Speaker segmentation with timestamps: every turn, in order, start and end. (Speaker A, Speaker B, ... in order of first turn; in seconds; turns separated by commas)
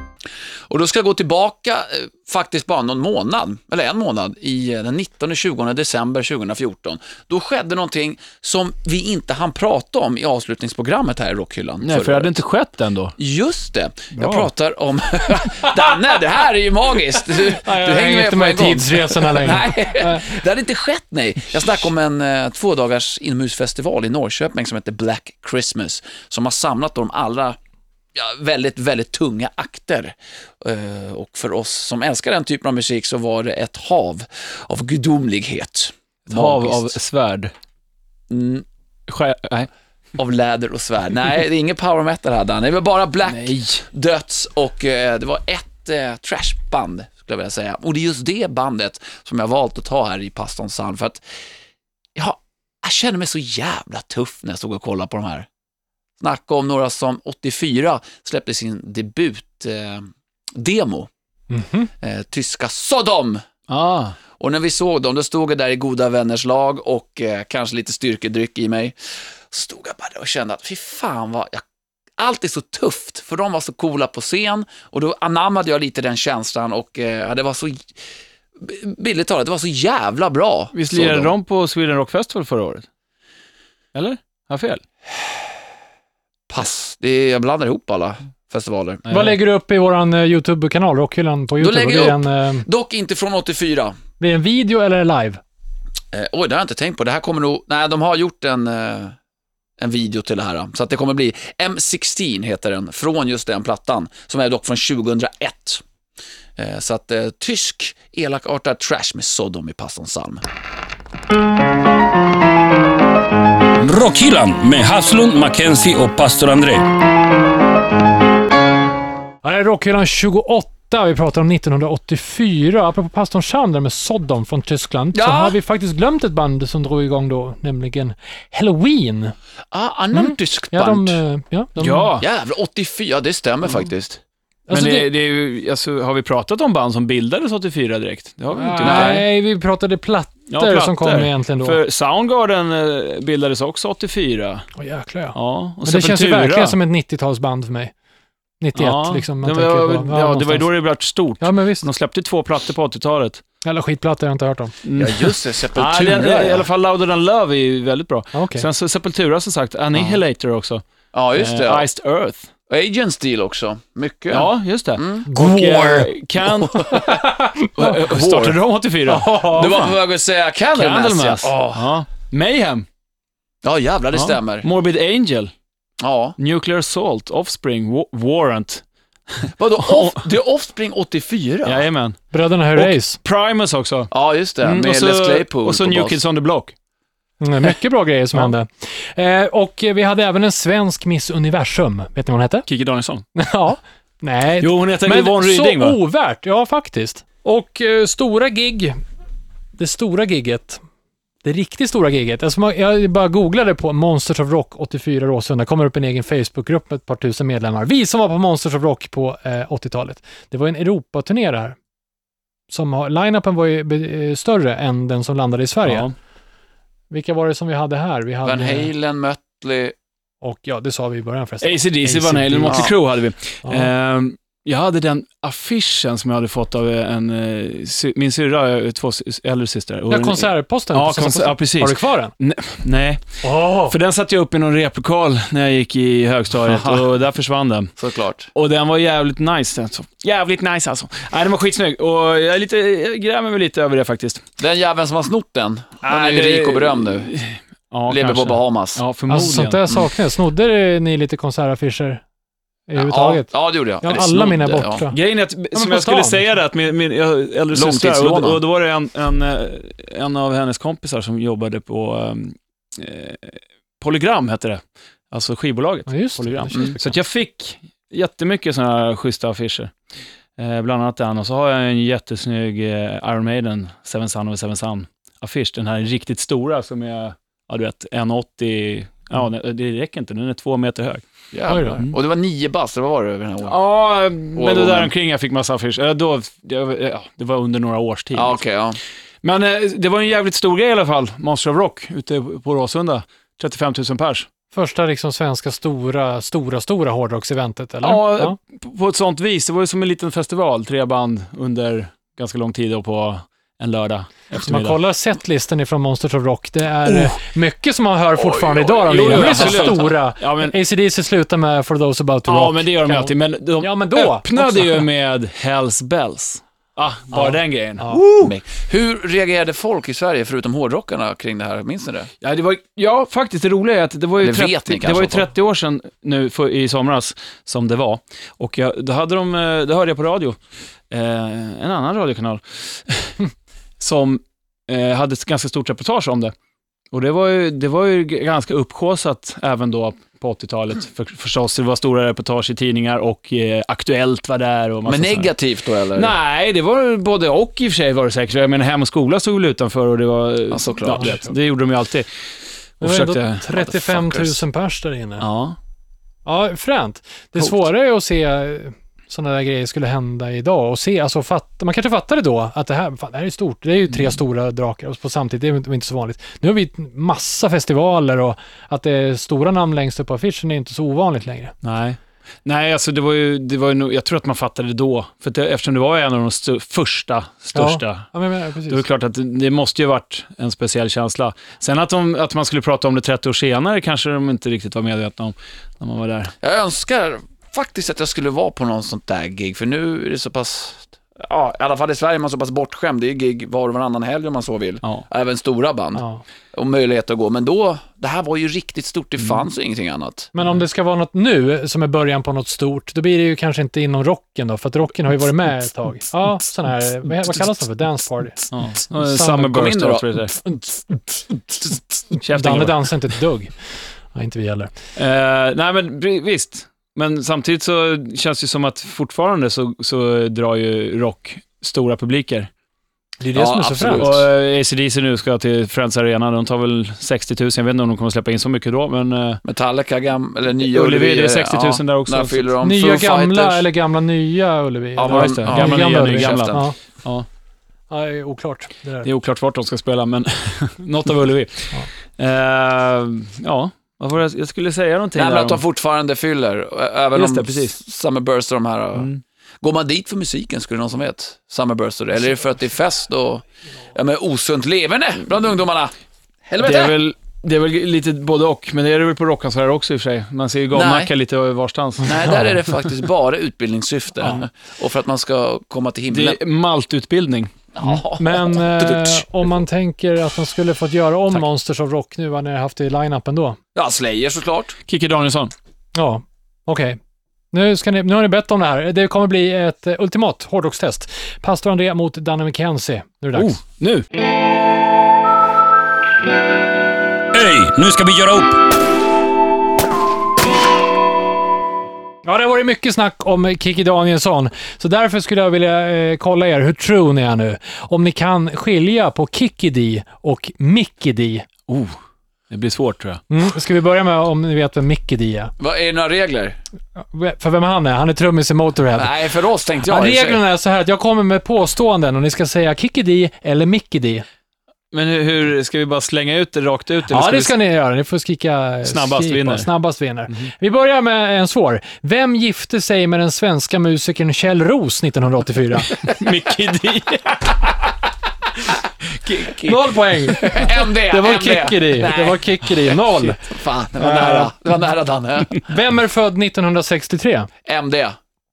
Speaker A: 0.7-12.4, Speaker B: 11.8-13.1, Speaker A: 13.2-27.6, Speaker B: 14.1-14.5, Speaker C: 17.4-20.3, Speaker A: 28.1-36.9, Speaker B: 36.3-37.5, Speaker A: 38.3-38.6, Speaker B: 39.1-39.7, Speaker A: 40.1-51.2, Speaker B: 43.2-43.8, Speaker A: 52.1-55.5, Speaker A: 56.2-61.1, Speaker C: 61.5-61.9, Speaker A: 62.0-63.4, Speaker B: 63.7-64.2, Speaker A: 64.4-71.6, Speaker A: 72.2-78.0, Speaker A: 78.6-81.3, Speaker B: 80.7-82.8, Speaker B: 83.9-84.8, Speaker A: 86.5-89.0, Speaker B: 89.1-89.4, Speaker C: 89.1-92.7, Speaker A: 91.6-94.0, Speaker C: 94.2-95.4, Speaker A: 96.1-99.1, Speaker A: 99.8-105.8, Speaker A: 106.6-110.4, Speaker D: 113.8-116.8, Speaker C: 119.4-129.3, Speaker A: 125.1-125.5, Speaker A: 129.7-131.2, Speaker C: 130.1-132.1, Speaker B: 131.8-132.2, Speaker A: 132.2-134.2, Speaker C: 134.7-135.1, Speaker B: 134.7-139.2, Speaker C: 138.5-141.8, Speaker A: 138.8-139.2, Speaker B: 140.5-144.7, Speaker C: 144.8-147.9, Speaker B: 145.3-146.8, Speaker C: 148.6-150.7, Speaker B: 148.8-153.4, Speaker C: 151.4-151.8, Speaker C: 153.6-154.7, Speaker B: 154.8-160.8, Speaker A: 155.0-156.7, Speaker C: 158.3-158.7, Speaker A: 161.1-161.8, Speaker B: 161.3-162.5, Speaker A: 162.7-165.3, Speaker B: 164.3-167.0, Speaker C: 165.3-166.1, Speaker C: 166.7-168.0, Speaker B: 167.8-169.9, Speaker A: 168.0-168.6, Speaker C: 169.1-169.9, Speaker A: 169.5-171.9, Speaker B: 170.7-172.8, Speaker A: 173.6-174.7, Speaker B: 174.1-175.5, Speaker A: 176.0-176.3, Speaker B: 176.4-178.8, Speaker B: 179.4-180.2, Speaker A: 179.6-181.8, Speaker B: 181.6-182.2, Speaker C: 182.3-183.2, Speaker B: 182.8-184.1, Speaker A: 184.1-186.2, Speaker B: 184.6-186.7, Speaker C: 187.4-192.7, Speaker B: 192.7-193.2, Speaker C: 193.3-199.0, Speaker B: 194.6-196.0, Speaker C: 199.8-200.8, Speaker C: 201.4-211.8, Speaker C: 212.7-216.1, Speaker B: 215.8-216.1, Speaker C: 217.1-218.9, Speaker A: 218.4-219.9, Speaker C: 220.4-222.9, Speaker B: 221.6-237.9, Speaker C: 223.6-223.9, Speaker C: 230.1-232.3, Speaker C: 233.4-233.9, Speaker A: 236.7-237.0, Speaker A: 238.0-238.5, Speaker B: 238.5-244.4, Speaker A: 244.6-247.3, Speaker B: 246.0-249.9, Speaker A: 248.1-249.0, Speaker C: 249.3-252.2, Speaker C: 252.9-253.5, Speaker A: 252.9-255.0, Speaker C: 254.0-255.2, Speaker B: 255.1-269.9, Speaker C: 255.7-256.5, Speaker A: 257.7-258.6, Speaker C: 266.1-267.1, Speaker B: 270.6-281.2, Speaker A: 281.5-283.8, Speaker C: 281.7-282.0, Speaker B: 283.6-288.6, Speaker A: 284.5-285.1, Speaker A: 288.3-289.0, Speaker B: 289.4-294.5, Speaker C: 294.7-298.6, Speaker B: 298.0-304.9, Speaker C: 304.6-315.1, Speaker B: 307.1-307.3, Speaker A: 308.4-310.1, Speaker B: 309.1-310.7, Speaker B: 312.5-318.5, Speaker C: 317.3-318.2, Speaker A: 318.4-322.3, Speaker B: 322.4-330.6, Speaker A: 324.4-325.5, Speaker B: 331.1-333.4, Speaker B: 334.0-336.5, Speaker B: 337.1-345.5, Speaker A: 345.1-346.3, Speaker B: 346.1-352.3, Speaker A: 350.7-351.4, Speaker C: 351.1-351.6, Speaker B: 353.0-353.6, Speaker C: 353.0-355.4, Speaker A: 353.7-354.6, Speaker B: 355.4-355.8, Speaker C: 356.4-371.7, Speaker B: 371.8-378.3, Speaker C: 377.7-379.0, Speaker B: 378.9-386.5, Speaker A: 386.6-396.2, Speaker C: 396.1-396.4, Speaker A: 396.7-400.5, Speaker C: 400.5-409.8, Speaker B: 408.7-410.6, Speaker A: 409.7-410.2, Speaker C: 412.3-413.7, Speaker B: 412.4-413.1, Speaker C: 414.3-414.9, Speaker B: 415.1-422.7, Speaker C: 423.4-424.4, Speaker A: 423.5-424.4, Speaker B: 424.2-429.6, Speaker A: 429.6-433.8, Speaker B: 430.8-432.7, Speaker C: 432.8-437.0, Speaker A: 435.1-436.9, Speaker B: 435.2-437.5, Speaker C: 438.1-439.3, Speaker B: 439.2-445.8, Speaker A: 445.3-449.3, Speaker B: 447.3-448.0, Speaker B: 449.1-449.4, Speaker A: 449.8-456.1, Speaker A: 456.7-457.2, Speaker B: 456.8-462.4, Speaker A: 460.9-461.3, Speaker A: 462.2-466.6, Speaker B: 466.3-467.7, Speaker A: 467.9-469.4, Speaker C: 468.0-473.8, Speaker A: 473.9-474.9, Speaker B: 475.1-475.7, Speaker C: 476.1-477.2, Speaker C: 477.7-483.8, Speaker B: 483.5-484.2, Speaker D: 487.5-488.8, Speaker C: 492.4-501.6, Speaker B: 501.9-502.1, Speaker B: 502.7-503.4, Speaker C: 503.5-505.7, Speaker A: 505.8-506.8, Speaker C: 507.1-509.3, Speaker A: 509.1-510.6, Speaker C: 510.1-514.4, Speaker B: 515.1-517.7, Speaker C: 517.3-526.2, Speaker B: 519.0-519.9, Speaker B: 526.1-527.9, Speaker A: 529.5-535.8, Speaker C: 529.8-534.7, Speaker C: 535.8-537.7, Speaker A: 537.9-538.4